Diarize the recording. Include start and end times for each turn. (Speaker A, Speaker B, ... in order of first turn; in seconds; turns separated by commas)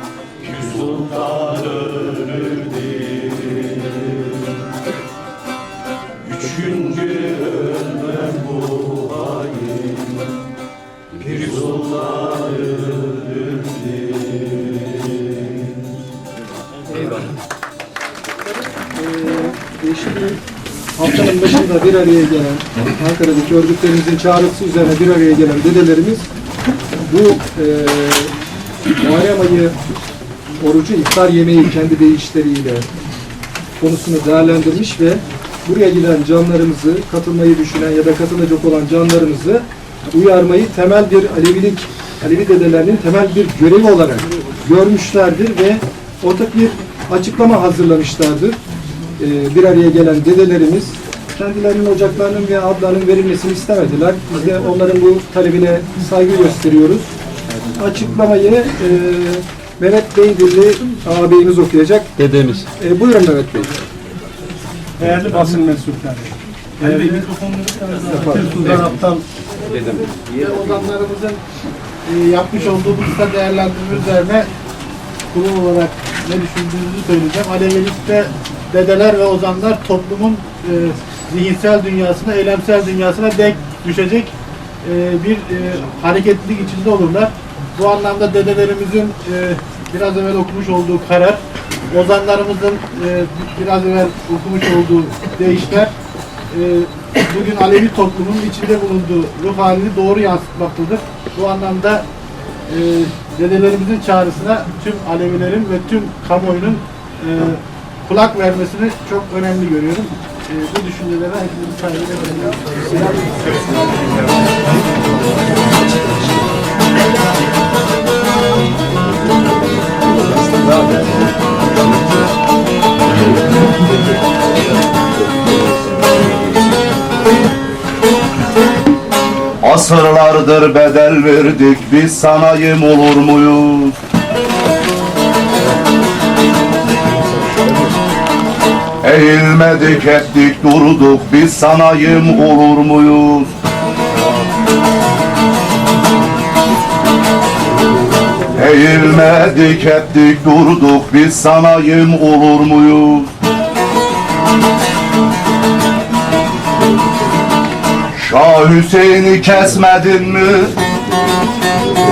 Speaker A: 0.4-4.0, Speaker A: 6.2-10.2, Speaker A: 11.1-13.6, Speaker B: 18.8-20.4, Speaker B: 20.9-26.3, Speaker B: 27.0-28.3, Speaker B: 29.0-29.8, Speaker B: 30.6-32.9, Speaker B: 33.8-48.6, Speaker B: 49.2-57.1, Speaker B: 57.7-62.1, Speaker A: 62.2-62.7, Speaker B: 62.8-63.8, Speaker C: 65.0-69.2, Speaker B: 68.1-68.8, Speaker A: 69.7-70.2, Speaker C: 70.2-71.4, Speaker C: 72.0-74.5, Speaker C: 75.3-84.3, Speaker C: 84.8-91.4, Speaker C: 91.9-95.9, Speaker C: 96.5-102.0, Speaker C: 102.7-113.3, Speaker D: 129.6-134.0, Speaker D: 139.0-143.5, Speaker D: 148.5-153.3, Speaker D: 158.1-160.8